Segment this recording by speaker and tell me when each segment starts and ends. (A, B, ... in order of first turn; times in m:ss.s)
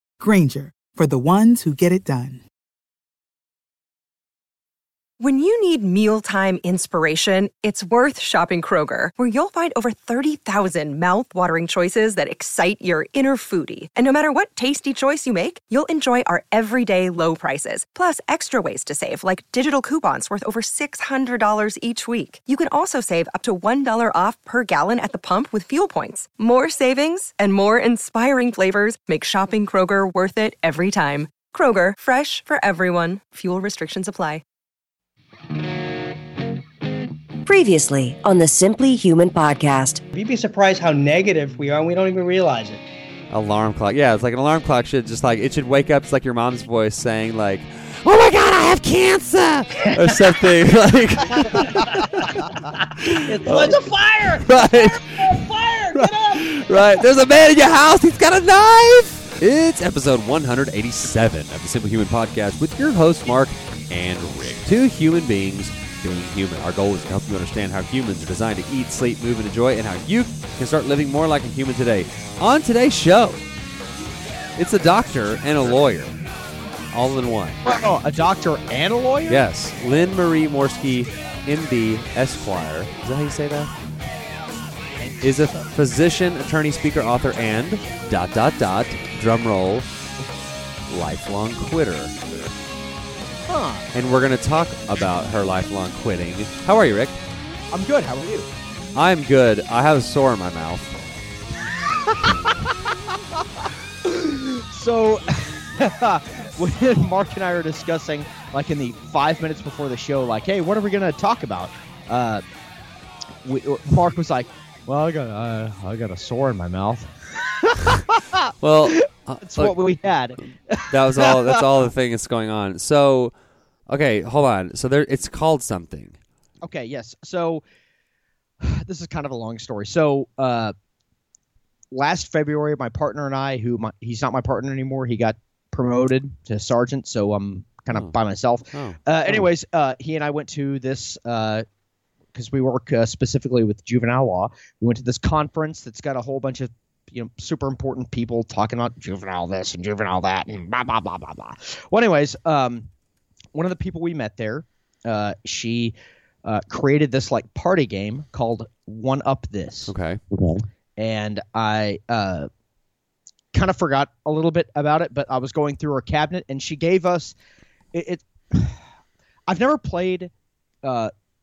0:00.2-0:02.4 A
0:05.2-0:34.4 B
0:37.4-0:40.0 C
0:40.1-0:42.8 D
0:43.3-0:52.5 E
0:51.3-0:52.2 D
0:53.0-1:13.4 E
0:53.1-0:56.8 D
1:14.6-1:16.1 E
1:16.9-1:17.6 E
1:17.6-1:19.4 F
1:19.3-1:23.7 E
1:25.2-1:29.9 E
1:30.9-1:32.2 E
1:33.5-1:33.9 F
1:33.9-1:37.2 E
1:37.7-1:38.5 F
1:38.9-1:41.0 E
1:42.0-1:43.4 F
1:44.0-1:52.4 F
1:53.4-2:01.6 F
1:58.6-1:59.8 E
2:00.9-2:03.3 E
2:03.9-2:06.2 E
2:06.6-2:07.6 F
2:08.6-2:10.7 F
2:11.9-2:21.6 F
2:18.7-2:19.0 E
2:22.3-2:32.9 F
2:33.5-2:39.9 F
2:39.9-2:40.2 E
2:40.5-2:42.5 F
2:43.5-2:47.3 F
2:47.9-2:48.8 F
2:49.5-2:50.3 F
2:50.8-2:51.1 F